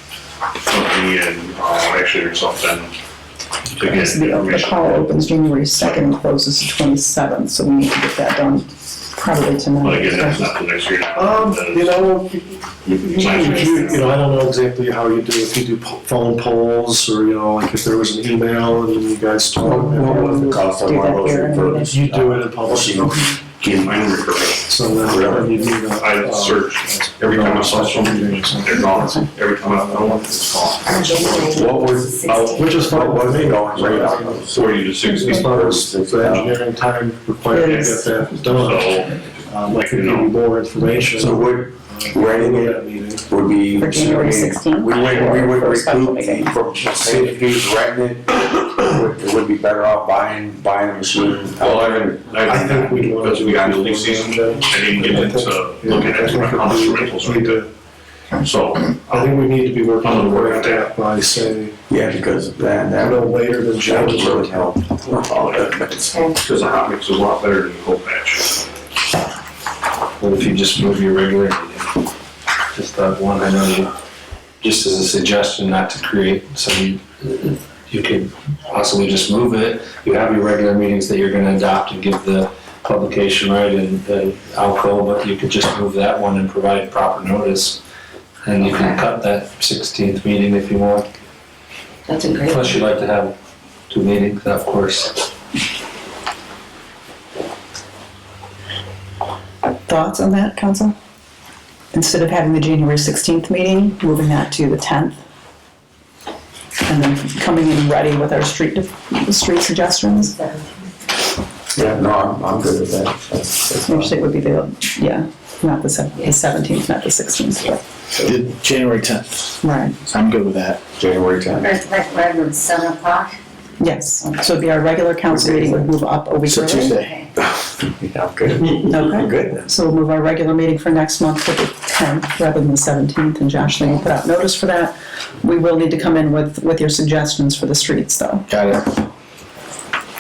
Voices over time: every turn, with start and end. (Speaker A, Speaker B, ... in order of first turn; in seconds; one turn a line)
Speaker A: 0.7-2.9
Speaker A: 3.7-5.1
Speaker B: 3.8-10.4
Speaker A: 9.8-12.0
Speaker C: 11.2-12.6
Speaker A: 12.8-14.1
Speaker C: 13.2-20.6
Speaker B: 13.2-13.9
Speaker D: 19.6-24.0
Speaker B: 19.7-22.0
Speaker C: 21.8-23.4
Speaker A: 23.6-31.6
Speaker C: 24.7-29.0
Speaker D: 25.1-25.6
Speaker D: 31.4-34.7
Speaker C: 32.5-43.3
Speaker A: 34.5-35.5
Speaker D: 35.4-36.6
Speaker B: 37.5-38.1
Speaker A: 37.7-40.3
Speaker D: 41.1-52.3
Speaker B: 43.8-46.5
Speaker A: 51.6-57.6
Speaker C: 52.4-57.7
Speaker A: 58.4-59.4
Speaker C: 59.0-61.8
Speaker A: 60.0-60.9
Speaker D: 61.9-63.3
Speaker C: 63.0-64.8
Speaker D: 63.8-66.3
Speaker A: 65.1-68.6
Speaker E: 70.2-72.0
Speaker E: 72.7-73.9
Speaker E: 74.6-87.8
Speaker E: 88.4-91.1
Speaker F: 88.7-89.0
Speaker F: 92.1-92.7
Speaker E: 92.4-93.3
Speaker E: 93.9-95.2
Speaker B: 99.9-101.0
Speaker B: 101.9-105.2
Speaker B: 106.9-110.4
Speaker D: 111.8-114.1
Speaker B: 113.9-117.8
Speaker G: 118.2-120.8
Speaker B: 119.6-120.0
Speaker D: 121.0-121.8
Speaker F: 121.7-123.3
Speaker B: 123.8-127.0
Speaker D: 125.3-125.8
Speaker G: 126.4-127.1
Speaker D: 127.5-129.7
Speaker B: 128.8-138.5
Speaker G: 138.5-138.9